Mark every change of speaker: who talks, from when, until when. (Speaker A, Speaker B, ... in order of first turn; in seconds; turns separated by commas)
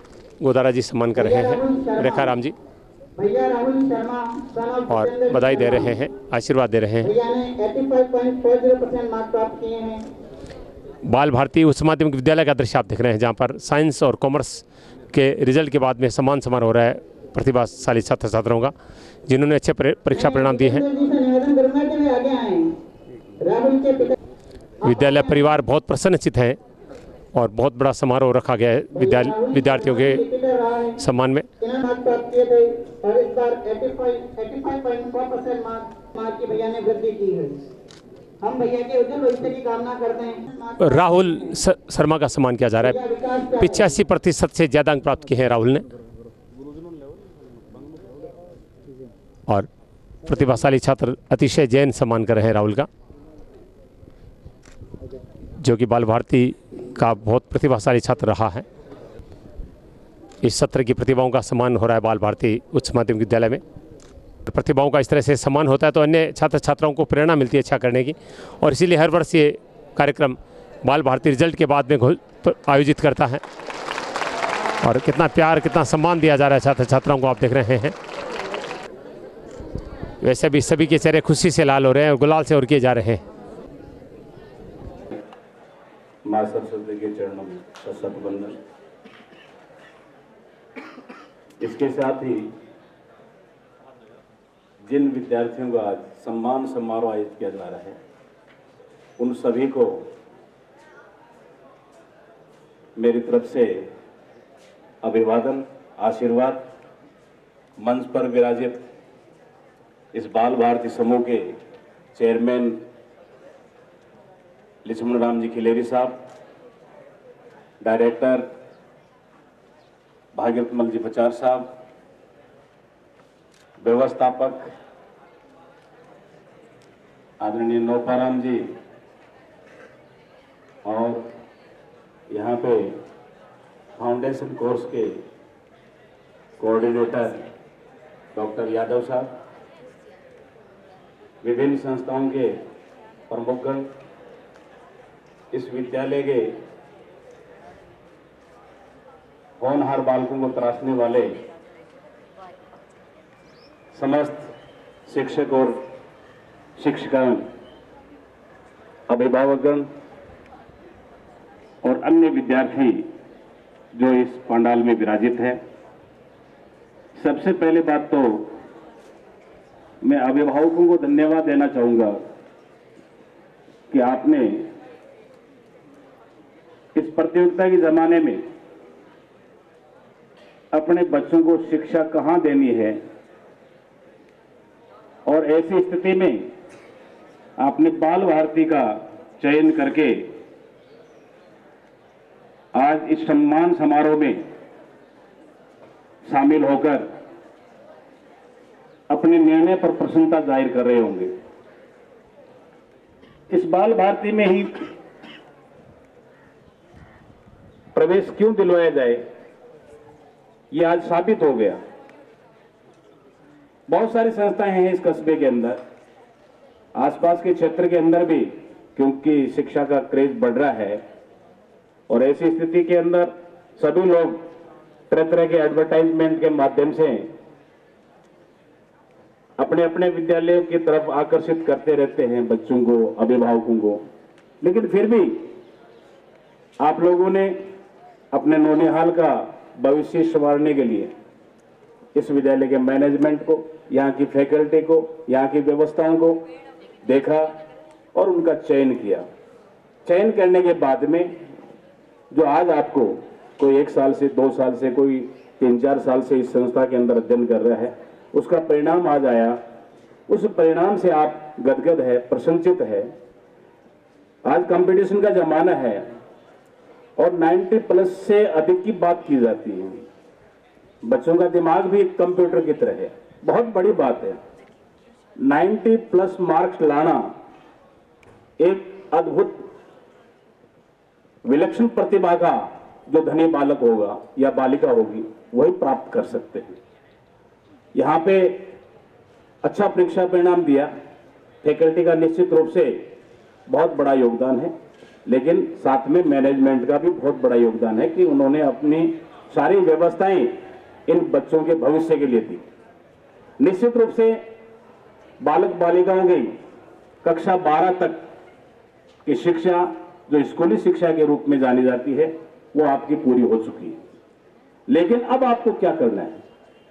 Speaker A: 0.4-2.5, Speaker B: 1.1-2.3, Speaker B: 3.1-6.0, Speaker A: 4.9-7.1, Speaker B: 7.0-10.1, Speaker A: 11.1-18.7, Speaker A: 19.3-20.8, Speaker B: 20.1-22.7, Speaker B: 23.4-24.1, Speaker A: 24.8-26.6, Speaker B: 24.8-25.6, Speaker A: 27.3-30.2, Speaker B: 28.9-31.0, Speaker A: 31.0-31.5, Speaker B: 31.6-37.6, Speaker B: 38.4-41.4, Speaker A: 40.8-43.0, Speaker B: 42.8-43.9, Speaker A: 43.6-45.9, Speaker A: 50.2-52.9, Speaker A: 55.6-58.6, Speaker A: 60.4-63.6, Speaker A: 64.5-73.4, Speaker A: 74.8-77.9, Speaker A: 80.2-83.2, Speaker C: 86.2-88.6, Speaker C: 91.6-92.5, Speaker C: 94.8-98.0, Speaker C: 99.2-100.1, Speaker C: 103.0-103.9, Speaker C: 105.0-106.7, Speaker C: 107.8-108.8, Speaker C: 110.1-111.6, Speaker C: 112.1-112.8, Speaker C: 114.8-116.2, Speaker C: 117.8-118.5, Speaker C: 120.3-121.7, Speaker C: 123.8-124.7, Speaker C: 127.4-128.8, Speaker C: 130.8-131.3, Speaker C: 132.3-133.0, Speaker C: 134.0-135.2, Speaker C: 136.6-137.5, Speaker C: 138.3-139.3, Speaker C: 141.4-142.6, Speaker C: 143.3-143.9, Speaker C: 145.5-146.6, Speaker C: 149.6-151.4, Speaker C: 153.9-154.5, Speaker C: 155.1-155.8, Speaker C: 156.8-157.4, Speaker C: 159.1-159.9, Speaker C: 161.8-163.1, Speaker C: 163.9-165.6, Speaker C: 167.2-168.6, Speaker C: 170.0-172.2, Speaker C: 173.9-174.7, Speaker C: 176.9-178.4, Speaker C: 180.7-183.0, Speaker C: 185.2-186.5, Speaker C: 187.6-190.3, Speaker C: 192.7-194.5, Speaker C: 196.2-197.1, Speaker C: 199.1-201.3, Speaker C: 203.5-204.9, Speaker C: 207.9-209.2, Speaker C: 210.7-211.8, Speaker C: 213.9-215.8, Speaker C: 216.9-221.0, Speaker C: 222.1-224.4, Speaker C: 225.1-227.3, Speaker C: 229.6-234.0, Speaker C: 234.6-235.5, Speaker C: 236.8-237.7, Speaker C: 238.3-241.1, Speaker C: 242.1-246.4, Speaker C: 247.0-247.6, Speaker C: 248.1-249.2, Speaker C: 250.1-251.4, Speaker C: 252.3-259.6, Speaker C: 260.3-263.1, Speaker C: 264.4-266.1, Speaker C: 267.2-270.0, Speaker C: 271.0-274.4, Speaker C: 275.4-277.3, Speaker C: 278.6-279.7, Speaker C: 281.4-286.8, Speaker C: 287.9-288.7, Speaker C: 289.6-290.9, Speaker C: 291.6-293.1, Speaker C: 293.7-294.7, Speaker C: 295.2-302.6, Speaker C: 303.6-304.4, Speaker C: 305.4-306.6, Speaker C: 307.2-308.3, Speaker C: 309.2-314.0, Speaker C: 314.9-316.4